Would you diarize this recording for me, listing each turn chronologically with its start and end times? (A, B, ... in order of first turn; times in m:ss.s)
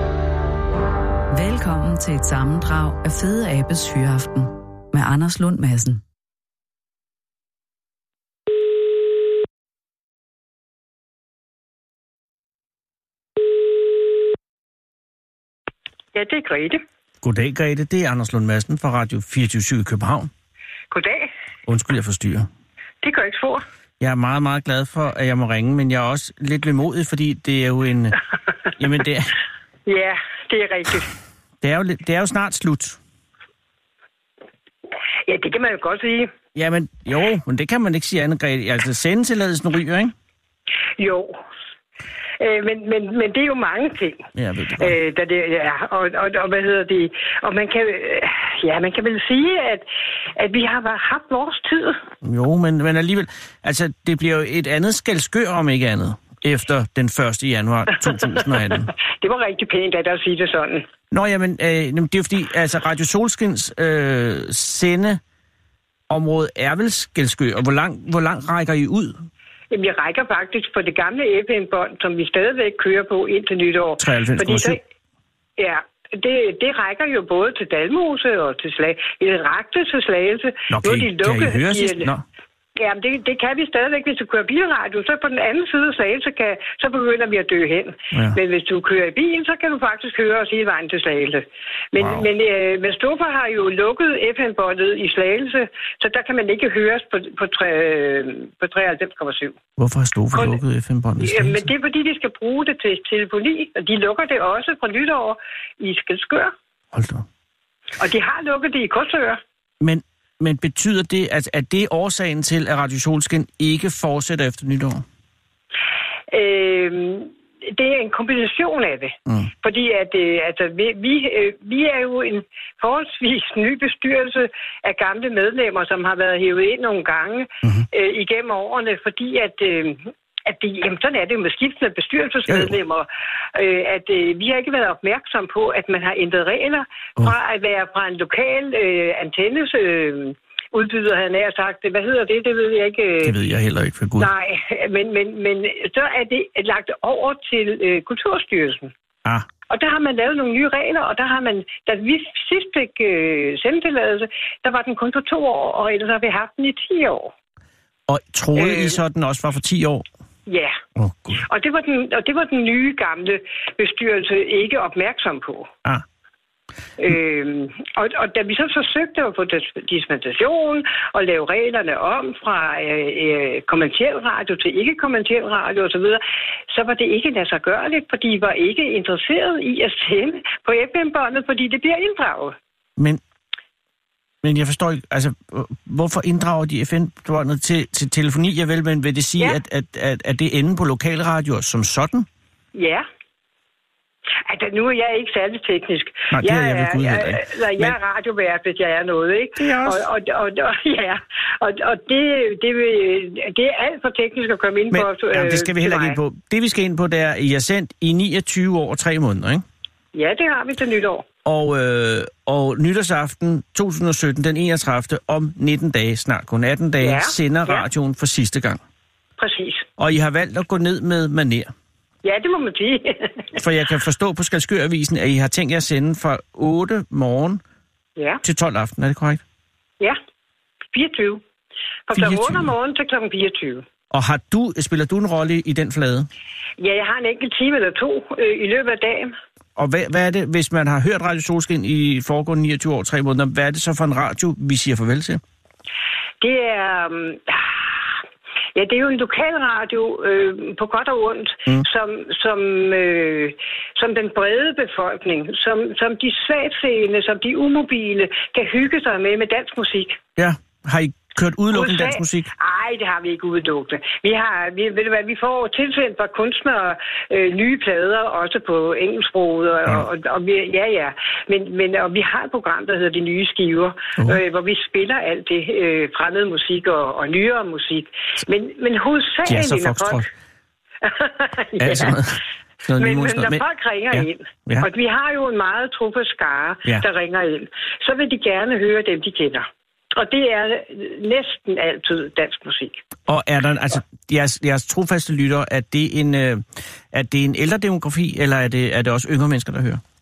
0:01.3-0:06.0 A
0:16.1-0:16.8 B
0:17.2-0:20.3 C
0:20.9-0:21.3 B
0:21.7-0:22.5 C
0:23.0-0:23.6 B
0:24.0-0:28.2 C
0:28.8-0:29.4 C
0:29.9-0:31.1 B
0:31.6-0:33.0 C
0:35.3-0:36.3 B
0:36.5-0:40.1 C
0:41.0-0:41.4 B
0:42.4-0:44.2 B
0:44.3-0:44.9 C
0:44.8-0:49.8 B
0:50.4-0:52.0 B
0:52.2-0:58.9 C
0:58.4-1:00.9 B
1:01.1-1:05.2 C
1:06.1-1:09.3 C
1:09.7-1:14.8 B
1:14.0-1:14.8 C
1:15.6-1:22.1 B
1:20.7-1:22.2 C
1:22.8-1:39.6 B
1:28.1-1:28.4 C
1:32.0-1:32.3 C
1:39.8-1:41.7 C
1:40.3-1:40.6 B
1:41.2-1:46.5 B
1:46.9-1:47.2 C
1:48.0-1:49.4 B
1:49.8-1:55.0 C
1:56.3-2:23.3 B
2:12.5-2:12.8 C
2:23.2-2:24.3 C
2:24.2-2:28.9 B
2:29.7-2:37.3 B
2:38.1-2:40.0 C
2:38.6-2:39.0 B
2:40.5-2:40.8 B
2:41.0-2:41.4 C
2:41.4-2:45.7 B
2:47.0-3:02.5 B
3:04.4-3:12.3 C
3:12.7-3:13.0 B
3:14.4-3:26.2 B
3:16.3-3:18.0 C
3:19.6-3:20.0 C
3:24.9-3:29.6 C
3:30.1-3:31.2 B
3:31.4-3:38.8 C
3:37.0-3:37.8 B
3:39.4-3:39.8 B
3:40.0-3:41.7 C
3:42.2-3:43.5 B
3:43.5-3:47.6 C
3:48.4-3:49.4 C
3:50.9-3:51.4 B
3:52.1-3:53.8 B
3:52.2-3:52.7 C
3:54.1-3:56.3 C
3:56.8-3:59.4 B
3:59.8-4:05.4 C
4:06.4-4:08.0 B
4:08.8-4:20.2 B
4:20.4-4:22.5 C
4:21.7-4:40.3 B
4:39.4-4:40.2 C
4:41.0-4:42.2 B
4:41.8-4:44.9 C
4:43.0-4:53.0 B
4:53.3-5:00.0 C